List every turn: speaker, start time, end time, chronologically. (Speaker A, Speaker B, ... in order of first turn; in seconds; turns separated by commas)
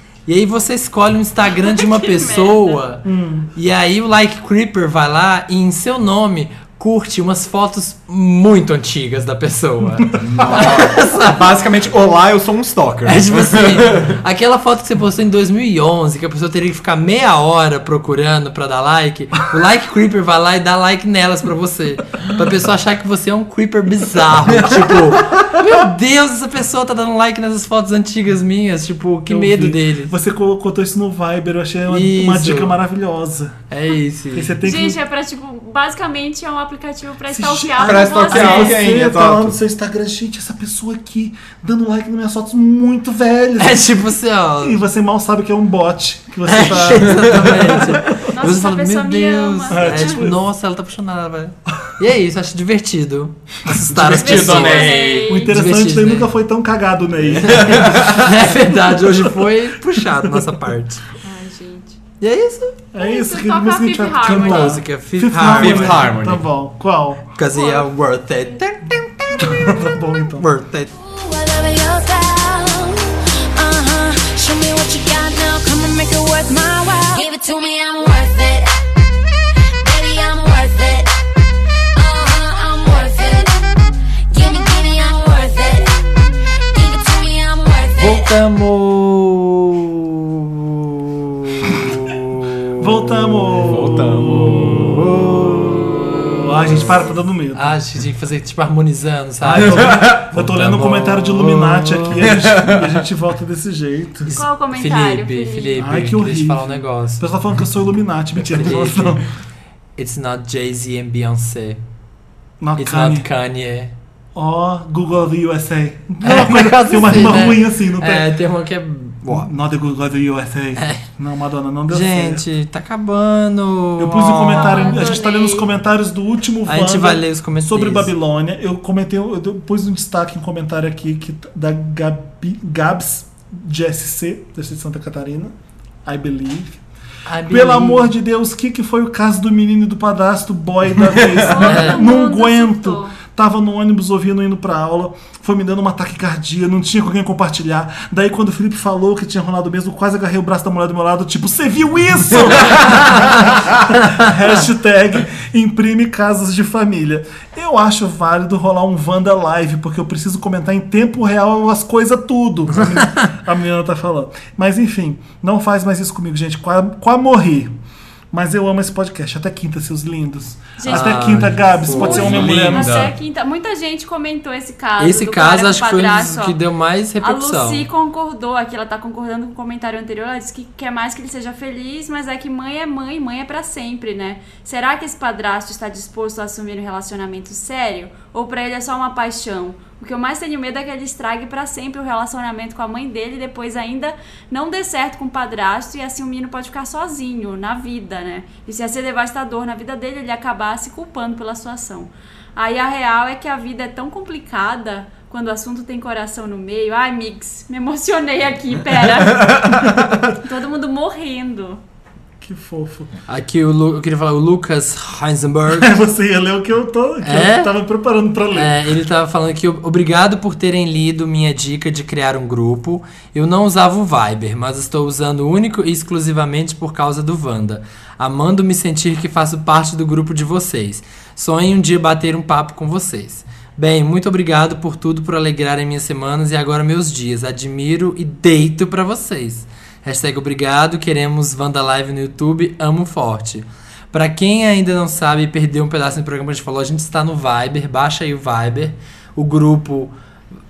Speaker A: 0.2-11.6, Speaker B: 1.5-2.8, Speaker C: 3.0-3.5, Speaker D: 10.2-14.2, Speaker C: 10.2-10.4, Speaker A: 13.0-30.1, Speaker D: 24.5-24.8, Speaker C: 29.2-33.6, Speaker A: 31.9-32.8, Speaker A: 33.7-34.5, Speaker C: 34.3-35.0, Speaker B: 34.6-38.8, Speaker C: 37.3-44.0, Speaker D: 37.8-39.6, Speaker A: 43.6-44.8, Speaker C: 44.6-48.2, Speaker A: 46.4-56.3, Speaker D: 47.0-47.4, Speaker B: 48.3-50.2, Speaker C: 49.7-50.4, Speaker D: 53.9-55.4, Speaker B: 54.1-55.6, Speaker C: 55.2-60.5, Speaker A: 57.3-61.0, Speaker D: 57.6-58.2, Speaker B: 61.2-62.0, Speaker A: 62.2-62.8, Speaker C: 62.9-67.2, Speaker B: 63.0-64.8, Speaker A: 64.2-66.1, Speaker D: 65.5-66.5, Speaker A: 67.3-70.9, Speaker B: 67.5-68.6, Speaker B: 69.3-69.6, Speaker C: 69.4-70.5, Speaker E: 70.9-78.7, Speaker E: 79.8-81.1, Speaker E: 81.9-83.7, Speaker E: 84.3-86.0, Speaker E: 86.7-88.3, Speaker A: 88.0-93.1, Speaker C: 92.8-95.0, Speaker D: 93.5-95.4, Speaker A: 95.0-95.7, Speaker C: 96.3-97.8, Speaker A: 97.5-102.3, Speaker C: 99.4-104.3, Speaker D: 99.6-100.2, Speaker D: 102.2-103.0, Speaker A: 104.2-107.2, Speaker B: 104.3-105.8, Speaker C: 105.8-109.2, Speaker A: 108.4-109.2, Speaker A: 110.0-111.8, Speaker C: 112.6-113.3, Speaker A: 112.8-113.9, Speaker C: 114.3-118.3, Speaker A: 116.2-119.5, Speaker C: 119.3-122.4, Speaker A: 120.8-121.0, Speaker A: 121.9-125.1, Speaker C: 124.0-135.5, Speaker B: 124.5-125.7, Speaker A: 126.7-128.1, Speaker C: 136.0-136.8, Speaker A: 137.3-138.1, Speaker C: 137.4-167.7, Speaker D: 141.0-141.4, Speaker B: 141.3-143.2, Speaker A: 141.6-142.1, Speaker C: 168.3-173.1, Speaker B: 170.8-176.6, Speaker A: 170.9-172.5, Speaker D: 172.1-173.1, Speaker A: 175.0-177.8, Speaker B: 177.2-211.8, Speaker D: 209.3-210.2, Speaker C: 212.4-213.1, Speaker A: 213.3-215.9, Speaker C: 215.7-218.8, Speaker A: 217.2-217.7, Speaker A: 218.5-250.1